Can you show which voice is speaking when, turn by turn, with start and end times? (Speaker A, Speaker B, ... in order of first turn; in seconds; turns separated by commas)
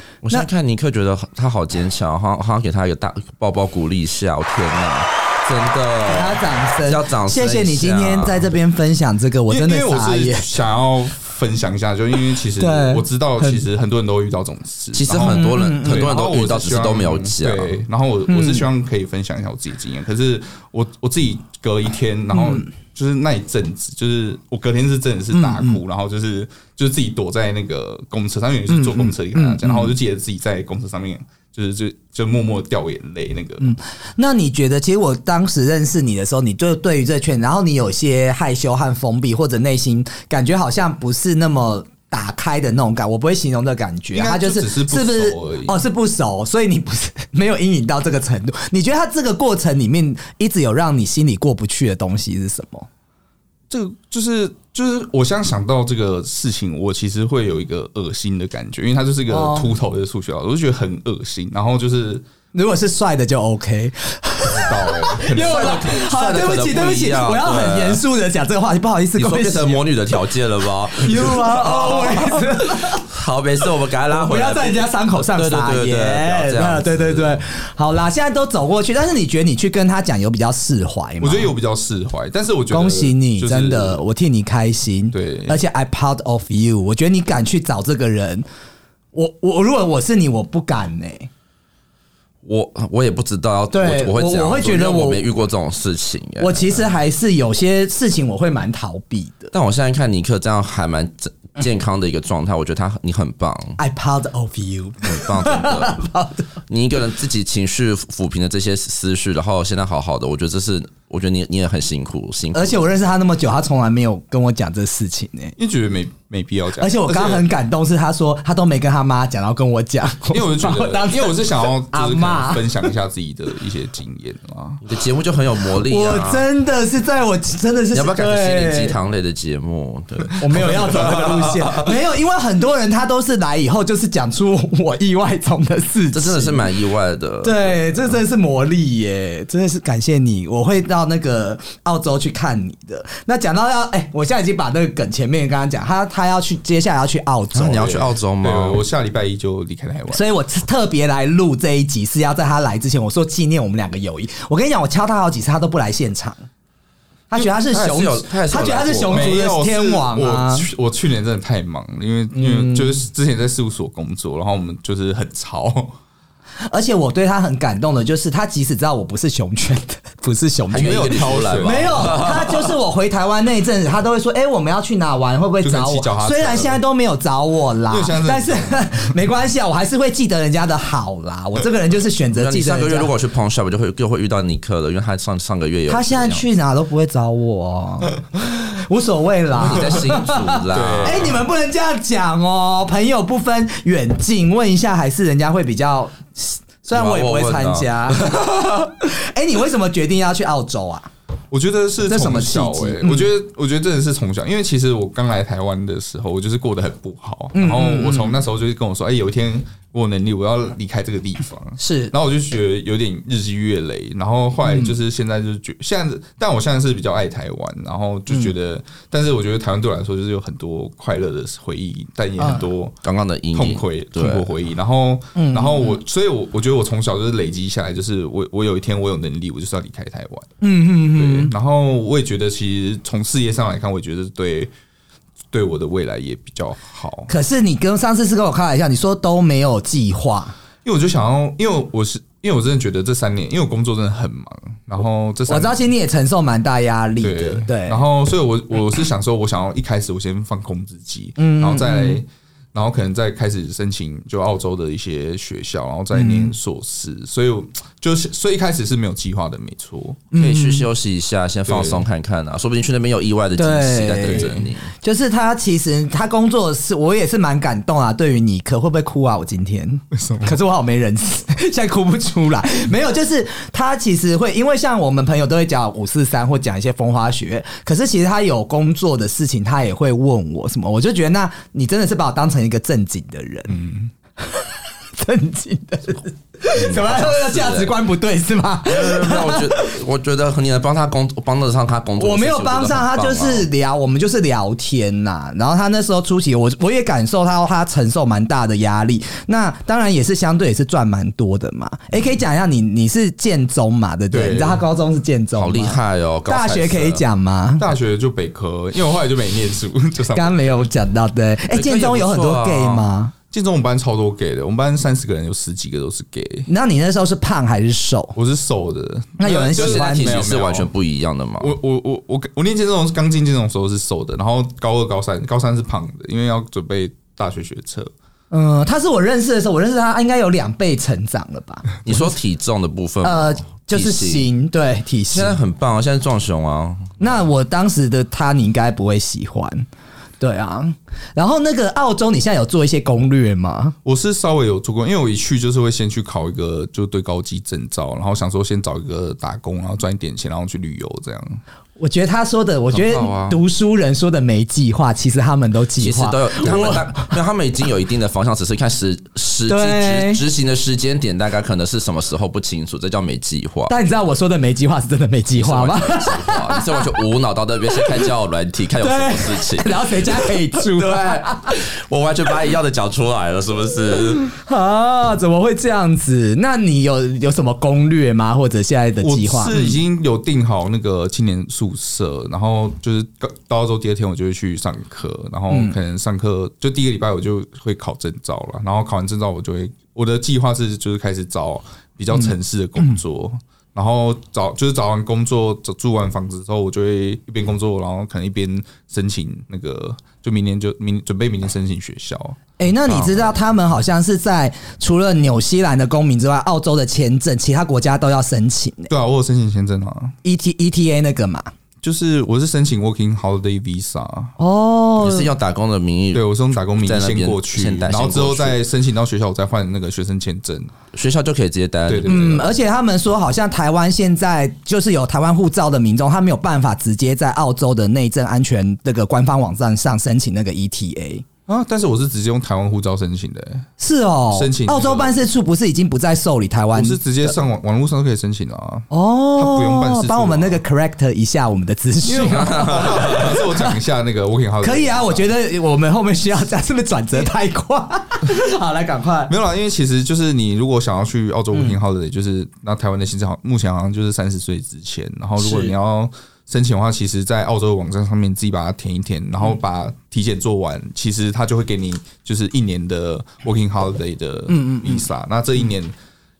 Speaker A: 0.2-8.5, Speaker B: 6.0-10.5, Speaker C: 9.5-33.7, Speaker B: 12.6-13.7, Speaker A: 14.9-17.8, Speaker B: 15.1-16.1, Speaker B: 18.3-18.7, Speaker B: 22.3-22.7, Speaker B: 25.3-25.8, Speaker B: 28.7-29.9, Speaker B: 33.6-52.9, Speaker C: 44.1-45.8, Speaker C: 53.7-62.2, Speaker B: 59.3-59.7, Speaker B: 62.5-69.9, Speaker C: 64.5-65.9, Speaker A: 65.4-68.0, Speaker A: 69.2-77.4, Speaker B: 70.9-73.0, Speaker B: 74.1-81.5, Speaker C: 81.2-84.0, Speaker B: 82.7-88.5, Speaker C: 85.1-85.6, Speaker B: 89.1-91.3, Speaker A: 92.4-96.9, Speaker B: 93.7-95.2, Speaker B: 96.4-99.5, Speaker A: 99.5-103.8, Speaker B: 103.8-106.5, Speaker A: 105.0-106.0, Speaker A: 106.7-112.8, Speaker B: 112.5-115.5, Speaker C: 115.6-117.5, Speaker B: 116.8-122.8, Speaker C: 120.3-124.8, Speaker A: 124.8-126.5, Speaker B: 125.8-128.9, Speaker A: 127.9-131.9, Speaker B: 130.4-136.7, Speaker A: 136.1-137.9, Speaker B: 137.4-148.1, Speaker A: 147.5-148.8, Speaker C: 148.4-150.2, Speaker B: 150.1-156.4, Speaker B: 157.3-160.7, Speaker A: 157.4-159.4, Speaker C: 159.1-166.0, Speaker B: 162.3-163.0, Speaker B: 166.7-183.1, Speaker A: 170.7-172.7, Speaker C: 170.7-172.2, Speaker C: 175.6-176.8, Speaker C: 177.9-179.1, Speaker A: 182.3-186.4, Speaker B: 185.9-201.1, Speaker A: 189.6-191.3, Speaker C: 190.7-191.4, Speaker A: 196.9-198.9, Speaker C: 201.5-223.0, Speaker B: 202.1-203.3, Speaker B: 207.5-208.4, Speaker B: 211.8-212.1, Speaker B: 214.7-214.9, Speaker B: 222.4-222.7, Speaker A: 223.0-224.5, Speaker C: 223.5-230.5, Speaker B: 225.3-226.0, Speaker B: 230.6-231.5, Speaker C: 231.1-234.7, Speaker C: 235.5-237.3, Speaker B: 237.3-240.6, Speaker C: 240.8-245.9, Speaker B: 245.5-248.0, Speaker C: 247.2-260.3, Speaker B: 251.4-252.2, Speaker B: 256.1-256.5, Speaker B: 260.3-260.9, Speaker A: 260.4-264.9, Speaker C: 261.7-262.1, Speaker B: 263.6-283.8, Speaker C: 264.3-264.7, Speaker C: 270.1-270.6, Speaker C: 283.7-284.1, Speaker B: 284.4-289.9, Speaker A: 286.7-288.0, Speaker A: 288.9-293.7, Speaker B: 292.2-307.9, Speaker C: 304.3-304.8, Speaker A: 305.6-307.2, Speaker C: 307.8-310.8, Speaker B: 310.4-313.3, Speaker A: 311.7-313.1, Speaker C: 313.5-316.7, Speaker B: 316.7-318.4, Speaker C: 318.4-320.9, Speaker B: 319.4-320.4, Speaker A: 319.7-321.8, Speaker C: 321.6-328.1, Speaker B: 328.5-332.2, Speaker A: 332.1-334.5, Speaker B: 333.2-335.6, Speaker A: 335.3-337.1, Speaker B: 337.2-339.9, Speaker B: 340.4-343.9, Speaker C: 344.0-351.6, Speaker B: 352.0-357.4, Speaker A: 352.9-353.6, Speaker A: 356.0-363.9, Speaker B: 359.7-360.4, Speaker B: 363.9-367.2, Speaker A: 365.6-374.5, Speaker B: 368.0-368.3, Speaker B: 369.0-371.8, Speaker B: 374.4-379.8, Speaker C: 379.2-402.6, Speaker B: 385.7-386.0, Speaker B: 402.8-409.1, Speaker A: 403.1-403.3, Speaker C: 409.1-410.4, Speaker B: 410.4-411.7, Speaker C: 412.0-414.6, Speaker B: 414.6-415.5, Speaker A: 415.2-418.8, Speaker C: 416.3-420.9, Speaker A: 421.1-422.7, Speaker C: 422.1-422.6, Speaker B: 422.3-431.5, Speaker C: 431.7-433.9, Speaker B: 434.0-437.6, Speaker C: 434.5-435.4, Speaker C: 436.9-440.8, Speaker B: 439.1-443.9, Speaker C: 442.2-445.5, Speaker A: 442.4-443.6, Speaker B: 444.8-449.5, Speaker C: 449.5-466.1, Speaker B: 455.6-455.9, Speaker B: 464.7-465.2